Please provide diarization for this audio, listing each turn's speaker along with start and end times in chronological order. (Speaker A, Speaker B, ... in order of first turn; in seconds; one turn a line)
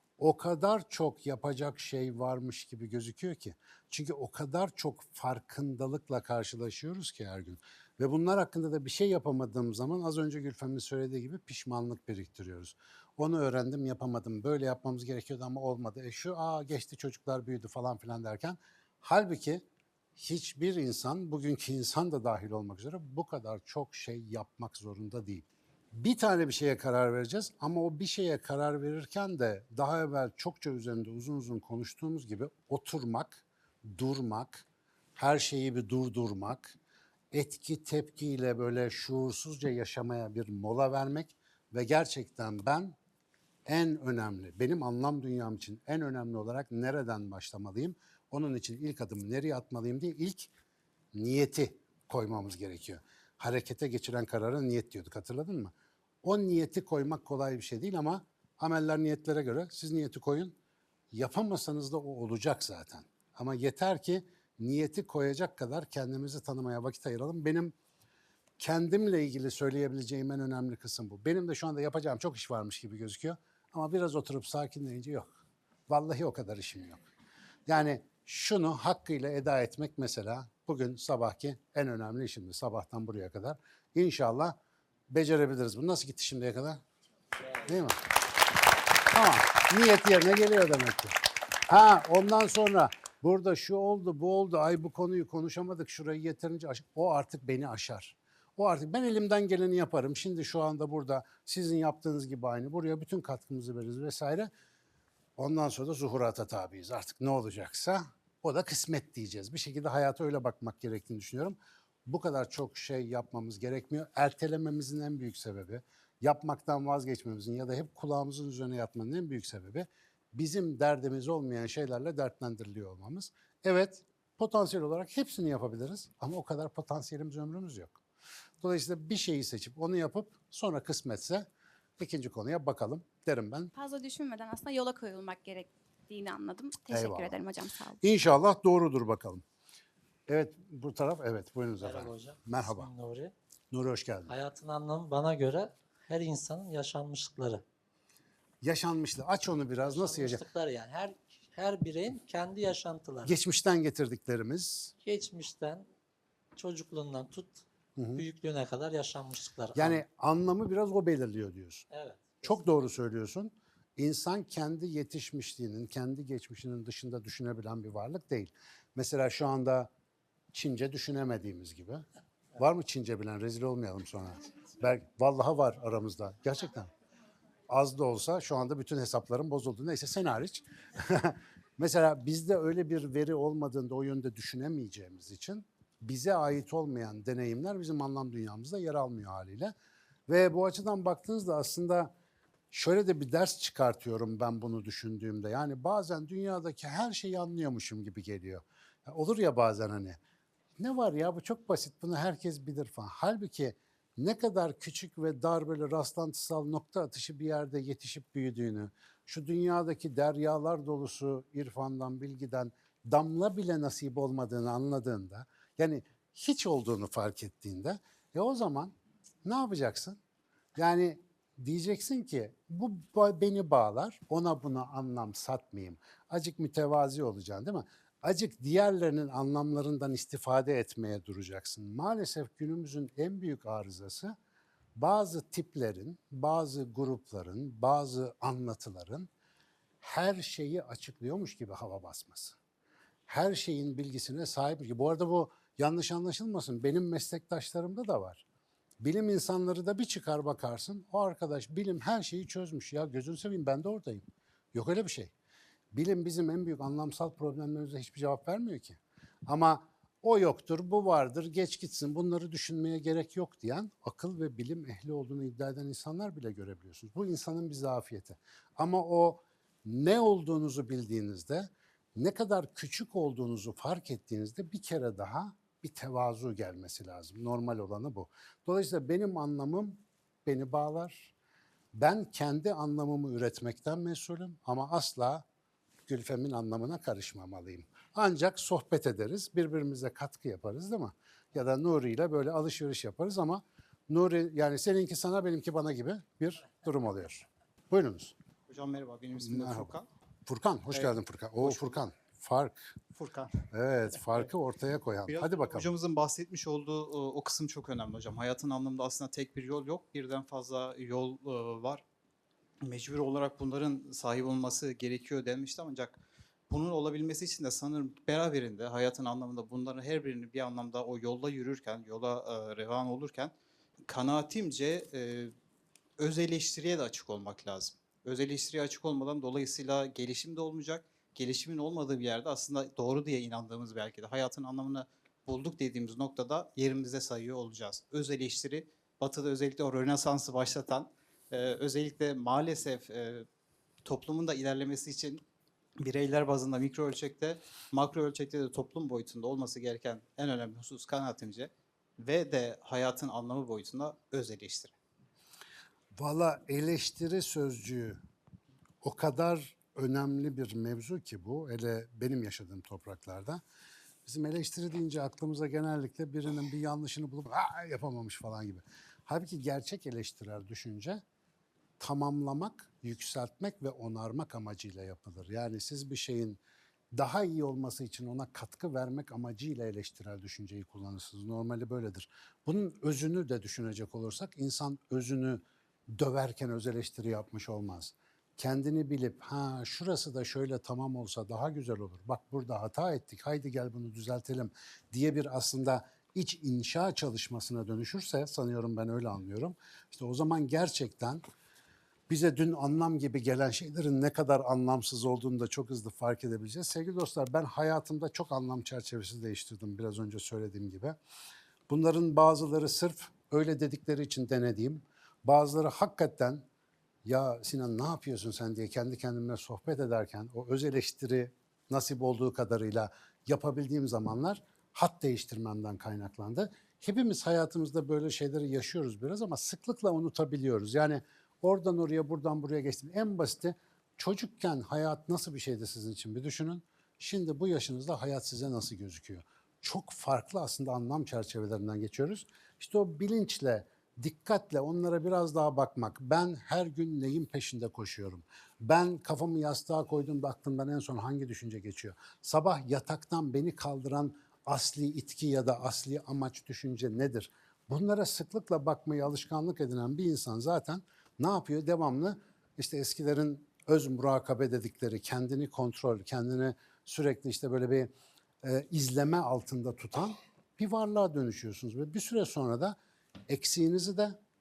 Speaker A: 0.2-19.6
Speaker A: 20.2-36.8
Speaker A: 37.3-43.0
Speaker A: 43.7-50.5
Speaker A: 51.1-60.6
Speaker A: 61.1-67.7
Speaker A: 68.6-77.0
Speaker A: 77.7-84.6
Speaker A: 85.1-86.8
Speaker A: 87.6-88.0
Speaker A: 89.1-91.2
Speaker A: 91.7-104.5
Speaker A: 105.4-128.0
Speaker A: 128.6-131.5
Speaker A: 132.0-133.7
Speaker B: 133.7-138.0
Speaker A: 136.9-137.4
Speaker A: 138.0-139.4
Speaker A: 140.3-142.9
Speaker C: 141.8-143.3
Speaker A: 143.7-144.3
Speaker C: 144.3-147.6
Speaker A: 148.6-150.4
Speaker C: 149.8-153.4
Speaker A: 153.2-154.9
Speaker C: 155.0-155.9
Speaker C: 156.6-157.6
Speaker A: 158.0-158.2
Speaker C: 158.2-160.0
Speaker A: 159.8-161.9
Speaker C: 161.9-162.5
Speaker A: 162.4-169.9
Speaker A: 170.5-172.0
Speaker A: 172.6-176.9
Speaker A: 177.7-189.7
Speaker A: 190.3-192.1
Speaker A: 192.7-200.2
Speaker A: 200.8-218.9
Speaker A: 219.4-220.2
Speaker A: 220.8-234.3
Speaker A: 235.0-239.3
Speaker A: 240.0-242.6
Speaker A: 243.3-248.4
Speaker A: 249.0-255.3
Speaker A: 255.9-281.3
Speaker A: 281.9-285.4
Speaker A: 286.1-298.3
Speaker D: 298.7-300.1
Speaker A: 299.4-299.9
Speaker A: 300.5-302.8
Speaker D: 300.9-302.0
Speaker D: 303.2-303.6
Speaker A: 303.7-305.9
Speaker D: 305.3-312.0
Speaker D: 312.8-323.5
Speaker D: 324.1-325.5
Speaker D: 326.2-343.5
Speaker D: 344.1-345.4
Speaker D: 346.0-354.9
Speaker A: 356.2-358.2
Speaker A: 359.0-363.6
Speaker A: 364.3-371.2
Speaker A: 372.0-376.6
Speaker A: 377.1-401.4
Speaker A: 402.3-411.2
Speaker A: 411.9-416.7
Speaker A: 417.2-468.1
Speaker A: 468.6-473.0
Speaker A: 473.5-474.4